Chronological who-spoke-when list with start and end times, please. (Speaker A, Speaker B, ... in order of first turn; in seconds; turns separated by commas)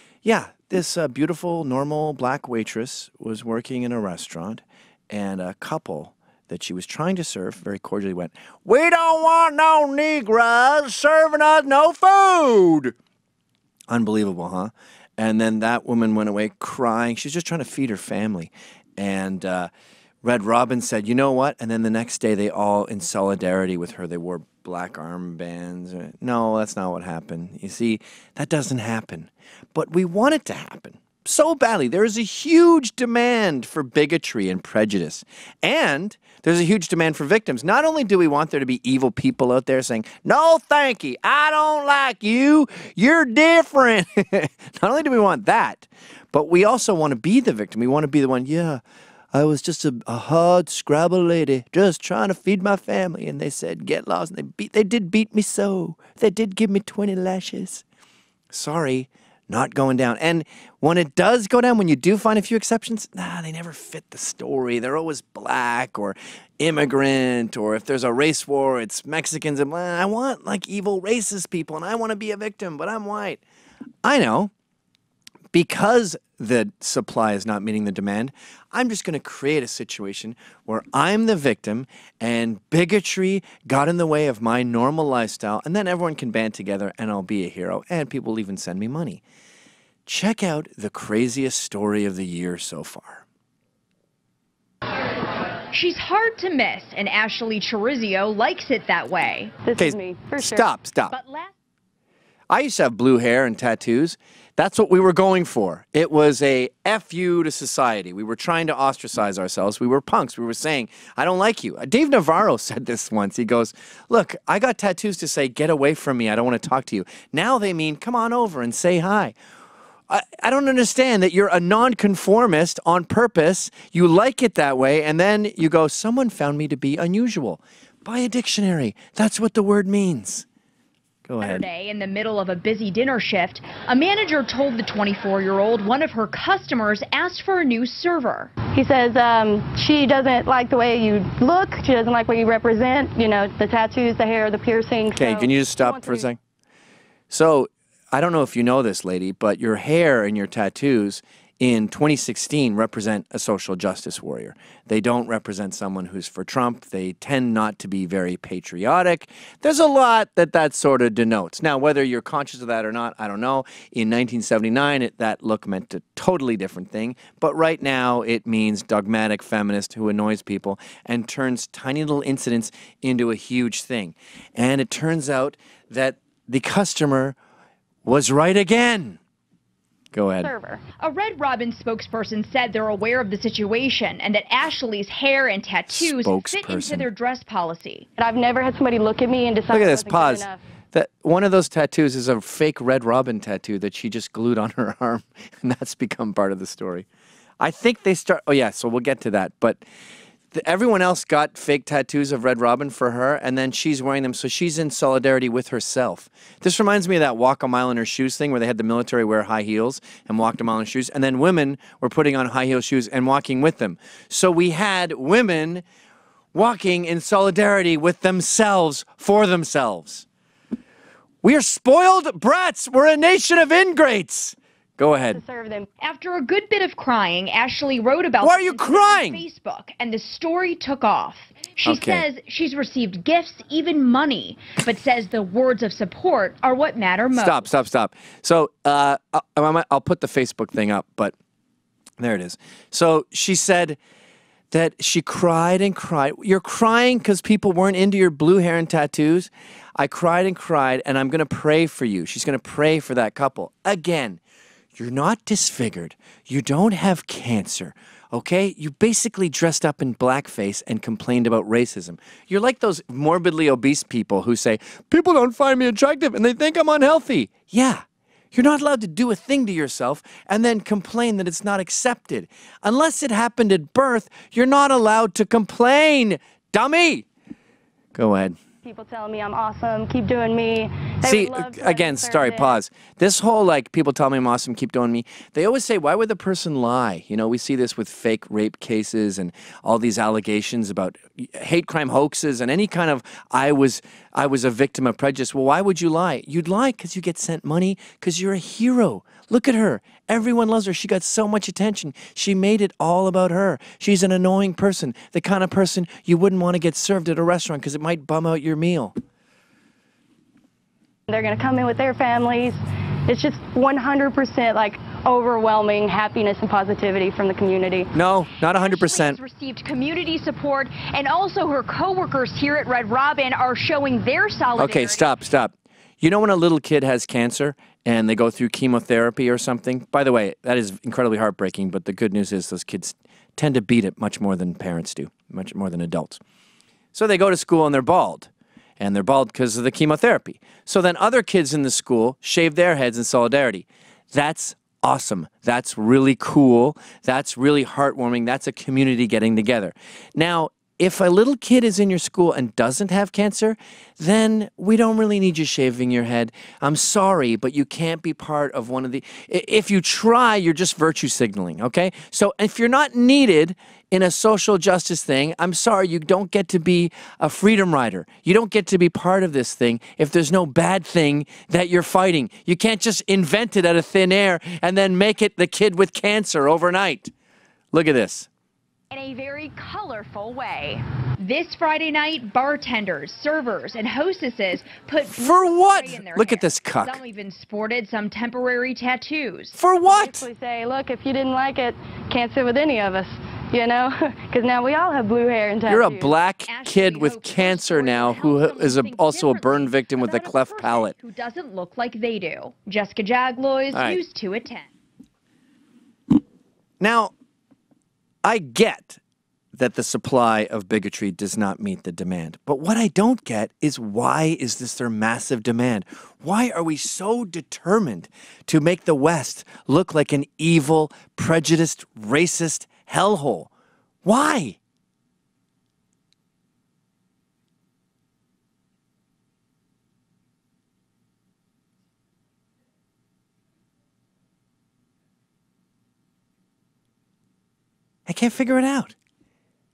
Speaker A: 0.2-12.9, Speaker A: 13.9-19.7, Speaker A: 20.2-48.8, Speaker A: 49.3-57.8, Speaker A: 58.5-73.4, Speaker A: 74.0-74.5, Speaker A: 75.5-89.2, Speaker A: 90.0-93.2, Speaker B: 95.7-99.5, Speaker C: 99.6-100.7, Speaker A: 99.8-101.2, Speaker B: 101.1-101.5, Speaker A: 102.5-119.3, Speaker A: 120.1-130.4, Speaker A: 131.2-131.7, Speaker B: 131.4-138.5, Speaker C: 138.7-146.3, Speaker A: 145.1-146.4, Speaker A: 147.3-177.4, Speaker A: 178.0-179.2, Speaker A: 180.1-180.5, Speaker C: 180.4-180.8, Speaker B: 181.0-188.1, Speaker A: 185.9-187.1, Speaker C: 188.2-190.6, Speaker A: 189.7-197.1, Speaker A: 197.6-199.8, Speaker A: 200.5-215.8, Speaker A: 216.5-220.2, Speaker A: 221.4-225.4, Speaker C: 225.3-225.9, Speaker B: 226.0-237.6, Speaker A: 228.4-229.4, Speaker A: 231.8-232.2, Speaker A: 237.3-241.3, Speaker A: 242.2-244.0, Speaker A: 244.7-254.4, Speaker A: 254.9-277.2, Speaker A: 278.1-278.6, Speaker C: 278.8-282.8, Speaker A: 281.2-309.1, Speaker C: 311.3-318.1, Speaker A: 318.1-319.4, Speaker B: 318.7-325.3, Speaker A: 324.8-336.4, Speaker A: 337.1-377.3, Speaker A: 377.9-378.5, Speaker B: 379.1-389.7, Speaker A: 385.3-387.2, Speaker A: 389.7-390.4, Speaker C: 390.0-396.3, Speaker A: 395.9-401.1, Speaker B: 396.7-404.9, Speaker A: 403.9-404.2, Speaker A: 407.0-407.3, Speaker A: 408.4-409.2, Speaker A: 409.7-423.7, Speaker A: 424.2-424.8, Speaker A: 438.3-439.1